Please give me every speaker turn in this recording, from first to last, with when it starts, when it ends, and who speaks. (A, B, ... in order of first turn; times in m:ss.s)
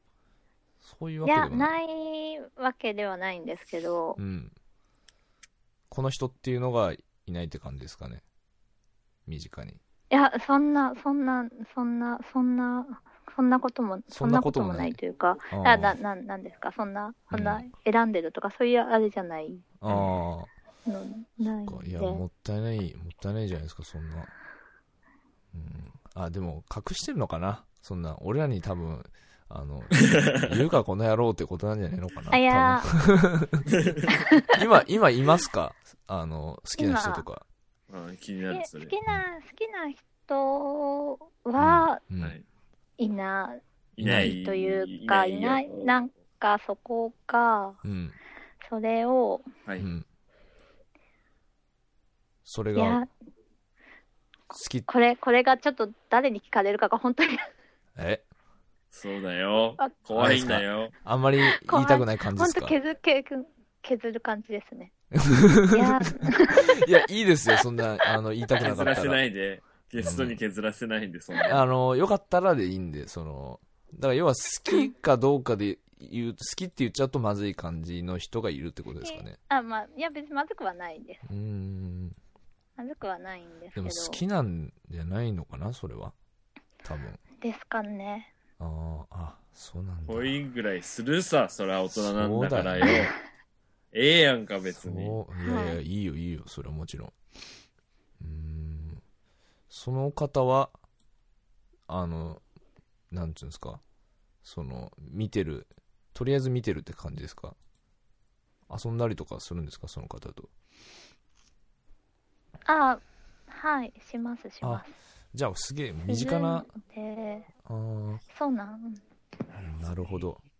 0:00.8-0:01.8 A
0:01.2-0:04.2 B
0:04.2-0:04.5 A
0:05.9-0:08.2 A
0:09.3-0:09.8 A
0:10.1-0:19.6 B
0:14.1-0:15.0 A
0:15.5-0:16.0 A
0:17.3-0:17.7 A
0:19.8-0:20.5 A
0:19.9-0:20.2 C
0:20.9-0:22.2 B
0:21.6-0:24.3 A
0:25.5-0:33.7 A
0:30.0-0:30.5 C
0:32.3-0:32.9 B
0:33.7-0:34.2 C
0:34.1-0:34.6 B
0:34.5-0:37.4 A
0:36.8-0:37.3 B
0:37.9-0:38.9 C
0:38.5-0:42.0 B
0:41.6-0:42.4 A
0:43.0-0:47.8 B
0:44.0-0:45.9 C
0:44.0-0:44.3 A
0:47.8-0:48.2 A
0:48.6-0:49.5 B
0:49.8-0:50.1 A
0:52.4-0:53.0 A
0:52.8-0:53.1 B
0:54.5-0:54.9 A
0:54.9-0:57.5 B
0:58.0-0:58.2 A
0:58.9-1:00.9 C
1:00.1-1:02.8 A
1:01.4-1:04.9 B
1:05.2-1:09.2 A
1:05.7-1:06.8 B
1:08.6-1:11.6 C
1:10.0-1:10.4 A
1:11.5-1:19.4 A
1:19.0-1:21.2 B
1:21.2-1:22.2 A
1:22.8-1:24.2 B
1:23.8-1:26.2 A
1:26.8-1:27.2 A
1:27.4-1:28.3 B
1:28.6-1:30.3 A
1:30.1-1:33.1 C
1:32.0-1:33.1 A
1:33.9-1:35.2 C
1:34.8-1:37.1 A
1:35.4-1:35.8 B
1:38.2-1:39.0 A
1:39.7-1:40.8 A
1:41.9-1:42.4 A
1:43.1-1:43.8 A
1:44.4-1:47.6 A
1:48.7-1:50.5 A
1:52.7-1:54.9 B
1:54.6-1:56.7 A
1:56.1-1:57.5 B
1:57.6-1:58.2 A
1:58.3-1:59.0 B
1:59.5-2:00.4 A